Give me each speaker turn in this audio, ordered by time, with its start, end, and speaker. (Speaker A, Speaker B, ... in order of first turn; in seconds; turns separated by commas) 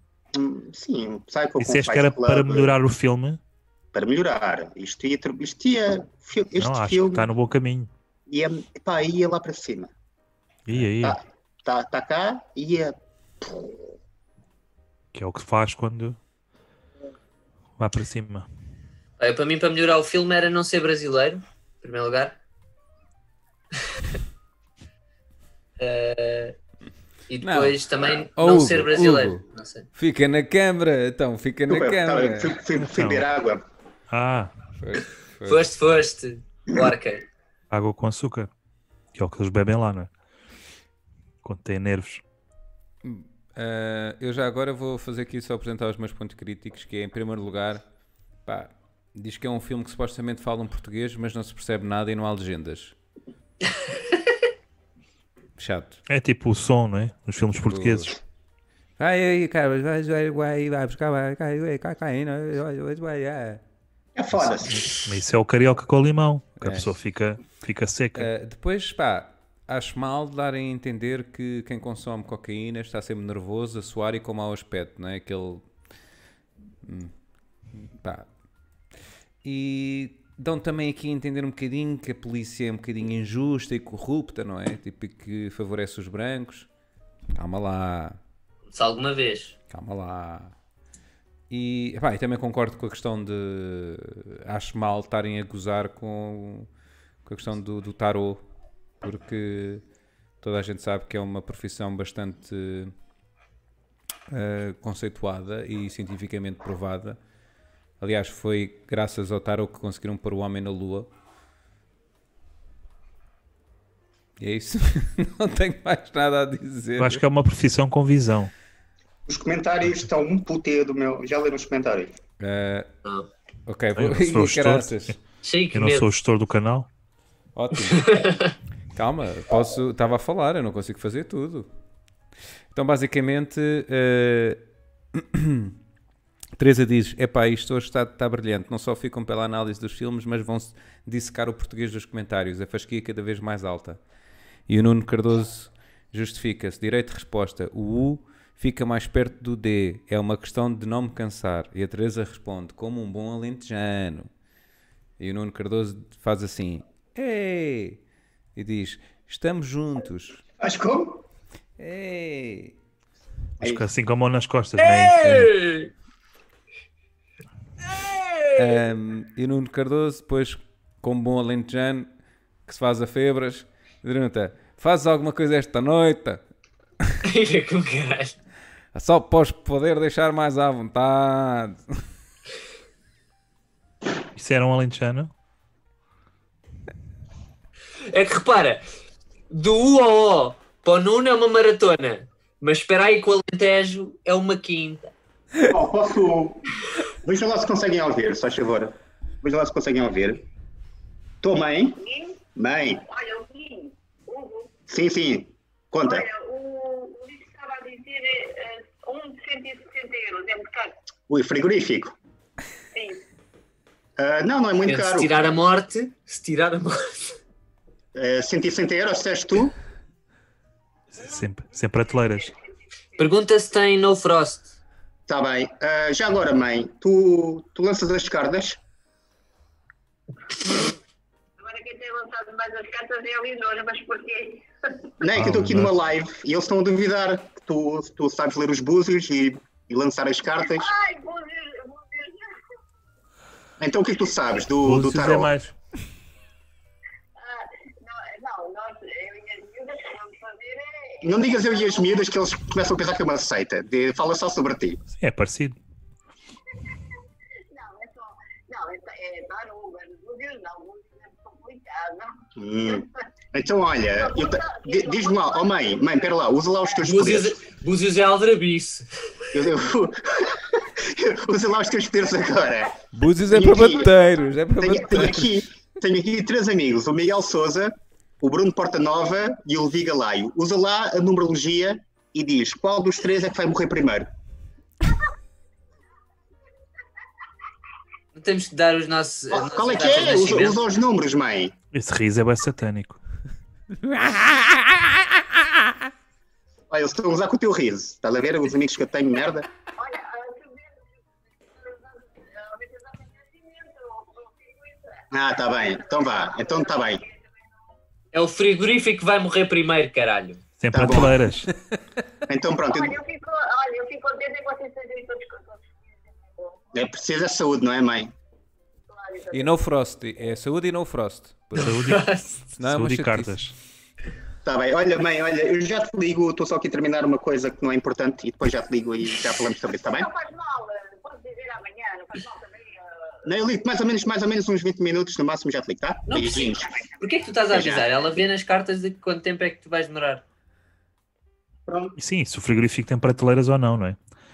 Speaker A: 0.3-2.7, Speaker B: 1.6-3.4, Speaker A: 3.9-7.3, Speaker B: 6.6-7.9, Speaker A: 8.3-9.9, Speaker B: 10.7-11.2, Speaker A: 10.9-13.9, Speaker B: 15.1-16.2, Speaker B: 17.8-18.5, Speaker C: 19.2-22.4, Speaker C: 25.8-26.6, Speaker C: 27.3-29.9, Speaker D: 27.4-29.4, Speaker D: 29.9-32.6, Speaker A: 31.7-33.6, Speaker B: 32.8-33.3, Speaker B: 34.1-34.5, Speaker D: 34.8-35.7, Speaker C: 35.5-37.3, Speaker B: 37.7-38.5, Speaker B: 39.1-40.1, Speaker B: 41.4-42.2, Speaker D: 43.0-47.8, Speaker D: 48.5-53.0, Speaker D: 55.6-56.0, Speaker B: 56.1-58.1, Speaker D: 57.7-58.1, Speaker D: 59.0-63.6, Speaker A: 64.2-65.0, Speaker B: 64.6-68.3, Speaker D: 66.6-66.9, Speaker D: 68.2-75.7, Speaker D: 76.8-77.1, Speaker D: 77.8-78.3, Speaker D: 79.4-86.7, Speaker D: 87.3-88.2, Speaker C: 88.7-89.5, Speaker D: 89.7-90.5, Speaker D: 91.5-96.7, Speaker D: 97.2-98.4, Speaker D: 99.0-99.8, Speaker D: 100.4-102.9, Speaker D: 104.3-107.2, Speaker D: 108.0-111.1, Speaker D: 114.4-117.2, Speaker B: 117.0-118.5, Speaker A: 119.3-122.2, Speaker D: 122.4-122.9, Speaker D: 123.7-125.2, Speaker B: 124.0-125.2, Speaker C: 125.4-126.1, Speaker B: 125.7-126.9, Speaker D: 127.5-128.3, Speaker C: 127.9-128.5, Speaker D: 128.9-131.7, Speaker D: 132.7-134.6, Speaker D: 135.1-135.8, Speaker D: 136.6-144.0, Speaker D: 144.7-154.3, Speaker D: 155.2-158.0, Speaker D: 158.6-160.4, Speaker A: 160.6-161.2, Speaker D: 161.8-162.8, Speaker B: 163.6-165.5, Speaker C: 164.8-165.9, Speaker C: 167.9-168.6, Speaker D: 168.6-172.1, Speaker D: 172.7-176.4, Speaker C: 177.2-178.4, Speaker D: 178.9-182.0, Speaker B: 184.3-185.3, Speaker C: 188.1-188.8, Speaker C: 189.5-195.1, Speaker A: 195.6-200.4, Speaker A: 201.4-202.0, Speaker E: 202.0-202.4, Speaker A: 202.6-203.1, Speaker E: 203.1-204.7, Speaker A: 204.9-206.3, Speaker E: 206.0-210.9, Speaker A: 211.3-212.2, Speaker E: 212.9-213.2, Speaker A: 214.2-215.3, Speaker C: 214.8-217.4, Speaker A: 218.2-219.8, Speaker B: 221.1-222.5, Speaker C: 223.2-224.8, Speaker A: 225.3-228.8, Speaker E: 230.6-230.9, Speaker E: 231.6-234.7, Speaker A: 235.2-240.9, Speaker B: 235.3-235.9, Speaker E: 240.6-242.4, Speaker A: 243.8-245.5, Speaker B: 244.8-245.8, Speaker E: 247.4-252.2, Speaker A: 251.2-255.0, Speaker B: 255.2-255.8, Speaker E: 257.7-263.1, Speaker A: 262.6-267.6, Speaker E: 264.1-266.3, Speaker C: 267.0-269.1, Speaker A: 269.5-273.0, Speaker D: 273.1-275.6, Speaker A: 273.5-274.1, Speaker A: 274.8-284.3, Speaker C: 288.4-290.8, Speaker A: 289.5-291.7, Speaker B: 291.9-293.2, Speaker D: 293.9-295.9, Speaker A: 296.9-299.7, Speaker E: 300.0-307.6, Speaker A: 305.3-307.2, Speaker C: 308.3-310.6, Speaker B: 310.8-311.7, Speaker A: 310.9-311.4, Speaker A: 312.5-313.2, Speaker E: 312.9-316.8, Speaker A: 316.9-318.3, Speaker E: 319.1-319.7, Speaker D: 319.5-322.2, Speaker B: 321.8-322.3, Speaker C: 322.0-322.6, Speaker D: 322.8-323.6, Speaker B: 322.8-323.8, Speaker A: 324.6-330.3, Speaker E: 330.1-333.0, Speaker A: 333.4-337.1, Speaker C: 336.3-340.4, Speaker A: 337.7-338.1, Speaker A: 341.9-342.2, Speaker B: 342.2-344.2